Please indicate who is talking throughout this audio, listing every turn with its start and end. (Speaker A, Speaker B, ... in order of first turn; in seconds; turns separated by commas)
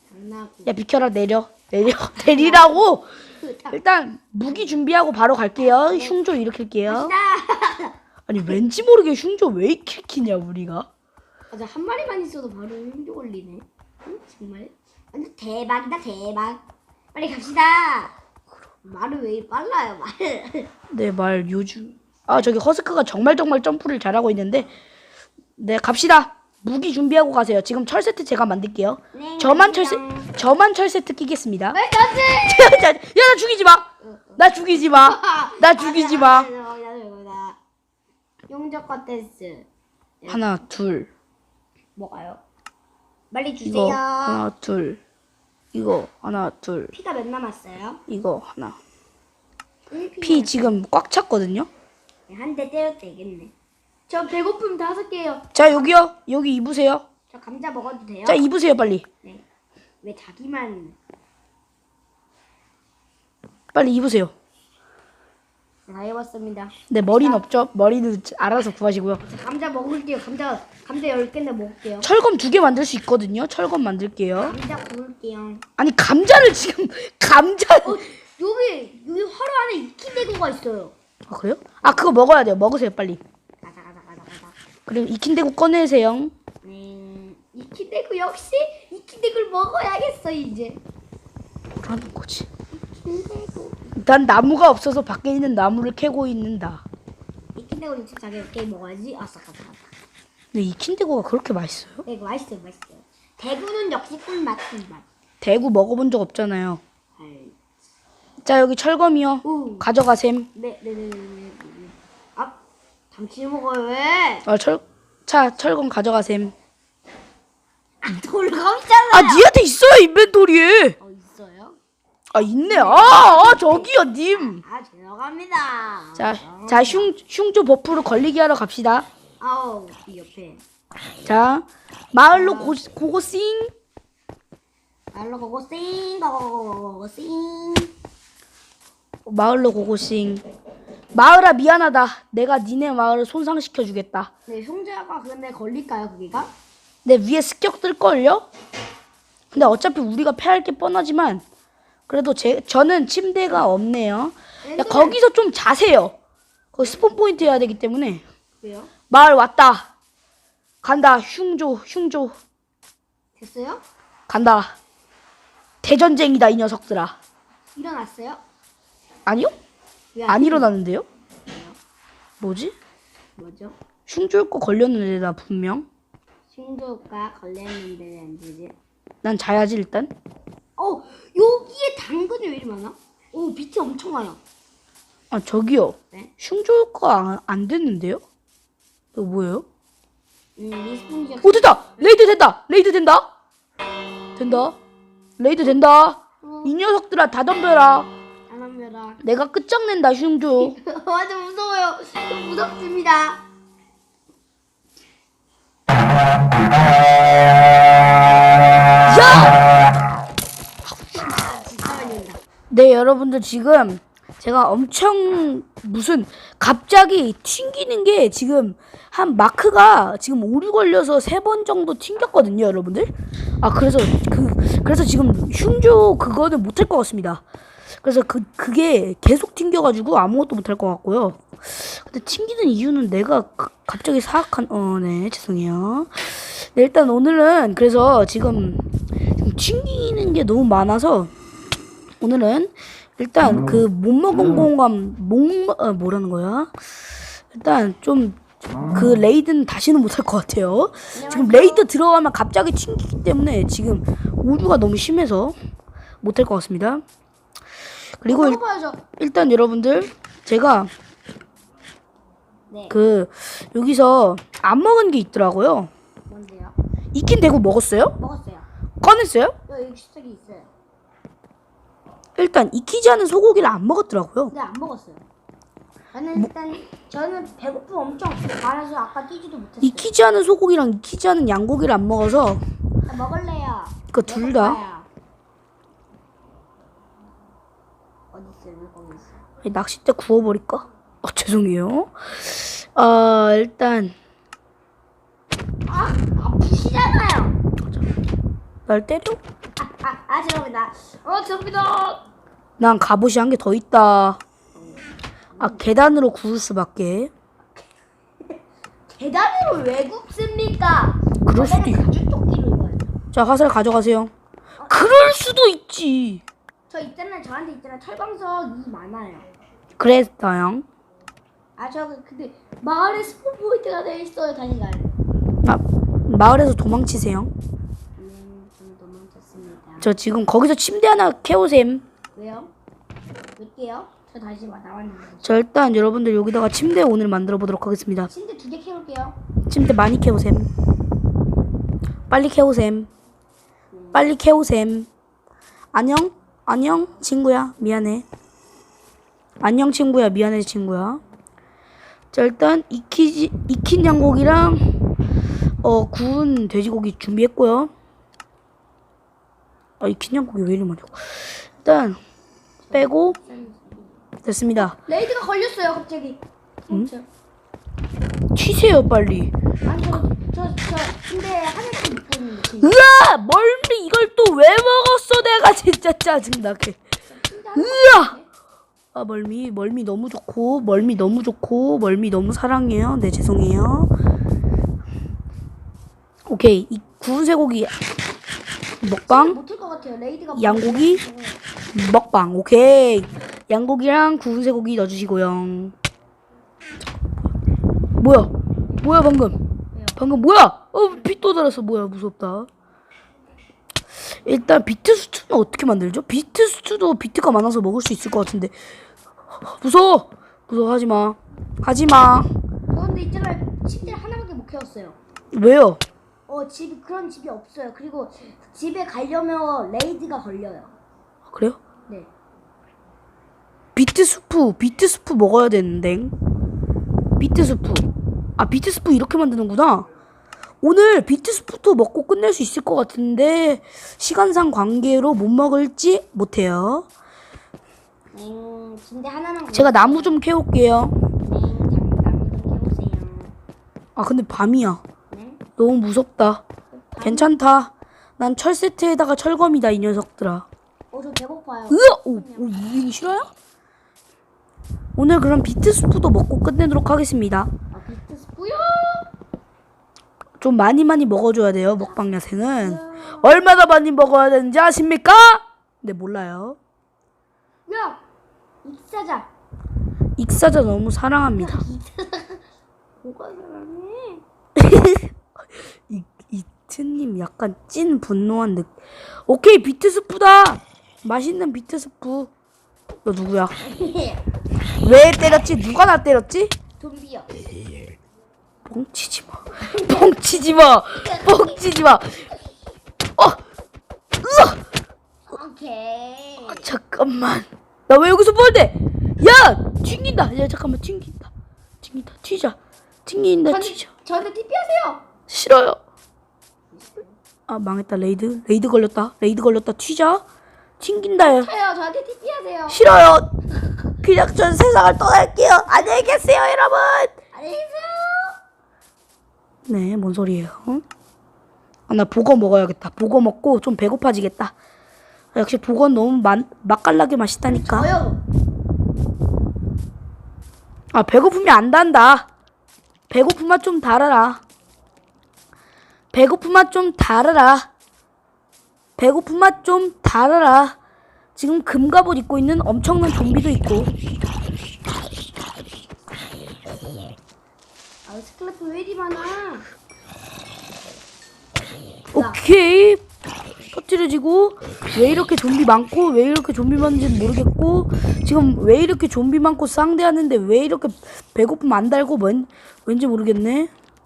Speaker A: 0.1-0.8, Speaker B: 0.7-3.1, Speaker A: 2.2-2.8, Speaker A: 3.4-3.8, Speaker B: 3.7-7.1, Speaker A: 4.5-4.8, Speaker A: 5.6-6.2, Speaker A: 6.8-8.0, Speaker B: 8.3-10.9, Speaker A: 11.5-16.6, Speaker A: 17.1-18.1, Speaker A: 18.8-20.7, Speaker B: 20.9-24.7, Speaker B: 25.6-31.8, Speaker A: 29.1-30.3, Speaker A: 31.7-32.9, Speaker B: 32.4-33.9, Speaker A: 34.0-37.6, Speaker B: 34.4-36.5, Speaker A: 38.5-39.7, Speaker B: 40.3-41.1, Speaker A: 42.0-42.4, Speaker A: 43.3-44.5, Speaker B: 43.6-45.0, Speaker B: 45.7-46.9, Speaker A: 46.9-48.0, Speaker B: 48.1-48.8, Speaker A: 49.9-50.6, Speaker B: 50.2-51.7, Speaker A: 52.3-53.5, Speaker A: 54.1-55.9, Speaker B: 55.5-57.0, Speaker A: 57.3-58.5, Speaker B: 58.2-59.0, Speaker A: 60.0-61.0, Speaker B: 63.7-64.3, Speaker A: 65.9-67.5, Speaker B: 66.9-69.2, Speaker A: 69.2-72.1, Speaker B: 72.0-74.5, Speaker A: 74.4-75.6, Speaker B: 75.8-78.0, Speaker A: 77.8-80.9, Speaker B: 81.3-83.2, Speaker A: 83.6-84.5, Speaker B: 84.9-86.3, Speaker A: 86.6-90.8, Speaker B: 91.8-92.5, Speaker A: 92.7-93.9, Speaker B: 93.9-96.8, Speaker A: 97.5-99.8, Speaker B: 100.5-102.0, Speaker A: 102.0-105.0, Speaker B: 105.4-106.8, Speaker A: 107.2-107.5, Speaker B: 108.4-110.5, Speaker A: 109.4-109.8, Speaker A: 110.5-112.6, Speaker A: 113.1-114.5, Speaker B: 114.5-116.5, Speaker A: 118.0-119.5, Speaker B: 119.1-121.0, Speaker A: 121.0-121.8, Speaker B: 122.3-124.6, Speaker A: 122.4-127.1, Speaker B: 126.2-129.1, Speaker A: 129.4-130.6, Speaker B: 131.2-133.7, Speaker A: 132.3-132.8, Speaker A: 135.1-137.9, Speaker B: 139.2-140.4, Speaker B: 141.1-144.3, Speaker A: 144.5-146.5, Speaker B: 147.0-148.5, Speaker B: 149.5-151.4, Speaker B: 152.1-156.1, Speaker A: 154.6-155.2, Speaker B: 156.7-158.2, Speaker A: 158.6-158.9, Speaker B: 159.1-159.9, Speaker B: 160.8-162.3, Speaker A: 163.4-163.8, Speaker B: 164.3-164.7, Speaker B: 165.8-167.2, Speaker A: 167.7-168.4, Speaker B: 169.2-169.5, Speaker A: 170.1-170.7, Speaker B: 170.3-171.0, Speaker A: 171.4-171.8, Speaker B: 172.4-172.7, Speaker A: 173.3-173.8, Speaker B: 174.1-175.8, Speaker A: 176.5-178.8, Speaker B: 179.2-180.1, Speaker A: 180.8-184.4, Speaker B: 185.3-188.2, Speaker B: 189.1-189.6, Speaker A: 190.6-191.8, Speaker B: 191.4-193.3, Speaker B: 194.4-194.8, Speaker B: 195.4-198.1, Speaker A: 196.4-196.7, Speaker A: 198.5-199.2, Speaker B: 199.2-200.8, Speaker A: 200.6-203.4, Speaker B: 209.1-209.6, Speaker A: 210.9-212.4, Speaker B: 212.7-227.4, Speaker B: 228.0-238.8, Speaker B: 239.4-241.3, Speaker B: 242.2-246.7, Speaker B: 247.5-255.5, Speaker A: 251.1-251.9, Speaker B: 256.2-257.0, Speaker B: 258.2-258.6, Speaker A: 258.3-259.0, Speaker B: 259.2-260.9, Speaker A: 262.7-263.0, Speaker B: 262.9-265.9, Speaker A: 266.3-266.8, Speaker B: 267.1-268.1, Speaker A: 268.2-268.7, Speaker B: 269.0-269.6, Speaker A: 269.7-270.7, Speaker B: 272.4-274.5, Speaker A: 274.5-275.2, Speaker A: 276.1-280.1, Speaker B: 279.8-282.6, Speaker A: 283.1-285.1, Speaker B: 284.1-284.8, Speaker A: 288.3-289.4, Speaker B: 289.6-294.1, Speaker A: 295.9-297.6, Speaker B: 298.9-299.4, Speaker A: 299.8-302.2, Speaker B: 302.8-304.4, Speaker A: 304.7-306.2, Speaker B: 305.6-307.3, Speaker A: 308.4-313.1, Speaker B: 311.4-312.0, Speaker B: 313.3-314.3, Speaker A: 314.8-315.1, Speaker B: 314.9-316.4, Speaker A: 316.9-319.5, Speaker B: 320.0-320.8, Speaker A: 321.8-325.2, Speaker B: 325.6-327.5, Speaker A: 328.2-330.1, Speaker B: 330.0-332.0, Speaker A: 332.3-332.7, Speaker A: 333.6-335.5, Speaker B: 335.4-338.3, Speaker A: 338.3-339.4, Speaker B: 339.6-340.7, Speaker B: 342.3-343.1, Speaker A: 343.9-344.3, Speaker B: 344.1-345.1, Speaker B: 345.9-348.2, Speaker B: 349.6-351.2, Speaker B: 352.3-354.8, Speaker B: 355.8-357.9, Speaker B: 360.0-362.2, Speaker A: 362.8-364.2, Speaker B: 362.9-363.4, Speaker B: 364.4-364.9, Speaker A: 364.8-367.3, Speaker B: 368.6-369.5, Speaker A: 369.8-373.0, Speaker B: 372.8-377.0, Speaker A: 377.3-378.4, Speaker B: 377.7-378.4, Speaker B: 379.1-384.1, Speaker B: 386.4-387.9, Speaker B: 389.0-389.6, Speaker A: 389.1-391.6, Speaker B: 390.5-391.2, Speaker B: 391.9-395.9, Speaker B: 398.2-399.6, Speaker B: 400.1-402.7, Speaker B: 404.4-408.7, Speaker B: 409.6-412.5, Speaker A: 412.9-415.2, Speaker B: 415.5-416.0, Speaker A: 416.5-420.9, Speaker B: 421.5-421.8, Speaker B: 423.9-426.3, Speaker B: 427.4-428.1, Speaker B: 428.6-430.1, Speaker B: 430.8-437.1, Speaker A: 438.3-440.4, Speaker B: 439.7-441.1, Speaker A: 441.4-443.6, Speaker B: 444.1-445.0, Speaker A: 445.3-445.6, Speaker B: 445.8-446.6, Speaker A: 446.9-447.5, Speaker B: 447.2-450.6, Speaker A: 451.1-452.7, Speaker B: 451.9-453.5, Speaker B: 455.1-457.7, Speaker A: 457.9-459.3, Speaker B: 460.6-466.8, Speaker A: 462.8-463.7, Speaker A: 467.9-468.2, Speaker A: 468.8-469.5, Speaker B: 470.4-471.9, Speaker A: 471.6-472.6, Speaker A: 473.2-474.4, Speaker B: 474.8-478.9, Speaker B: 479.5-482.5, Speaker B: 483.2-483.7, Speaker A: 483.8-484.4, Speaker B: 485.0-486.7, Speaker A: 487.0-487.5, Speaker B: 488.9-492.4, Speaker A: 489.8-491.9, Speaker B: 494.4-494.8, Speaker A: 495.5-496.9, Speaker B: 496.6-501.5, Speaker B: 502.0-504.1, Speaker A: 503.6-505.2, Speaker B: 505.5-506.0, Speaker A: 506.9-507.3, Speaker B: 507.7-510.4, Speaker B: 511.0-511.7, Speaker A: 511.4-513.0, Speaker B: 512.9-513.5, Speaker B: 514.2-517.4, Speaker A: 515.9-516.3, Speaker A: 517.5-518.6, Speaker B: 519.9-521.0, Speaker B: 522.1-524.7, Speaker B: 525.5-528.1, Speaker A: 527.7-528.4, Speaker B: 531.1-532.5, Speaker B: 533.3-534.6, Speaker B: 536.3-537.9, Speaker B: 539.2-541.0, Speaker B: 541.5-544.1, Speaker A: 548.2-549.9, Speaker B: 552.3-553.2, Speaker A: 552.3-552.6, Speaker B: 553.9-563.9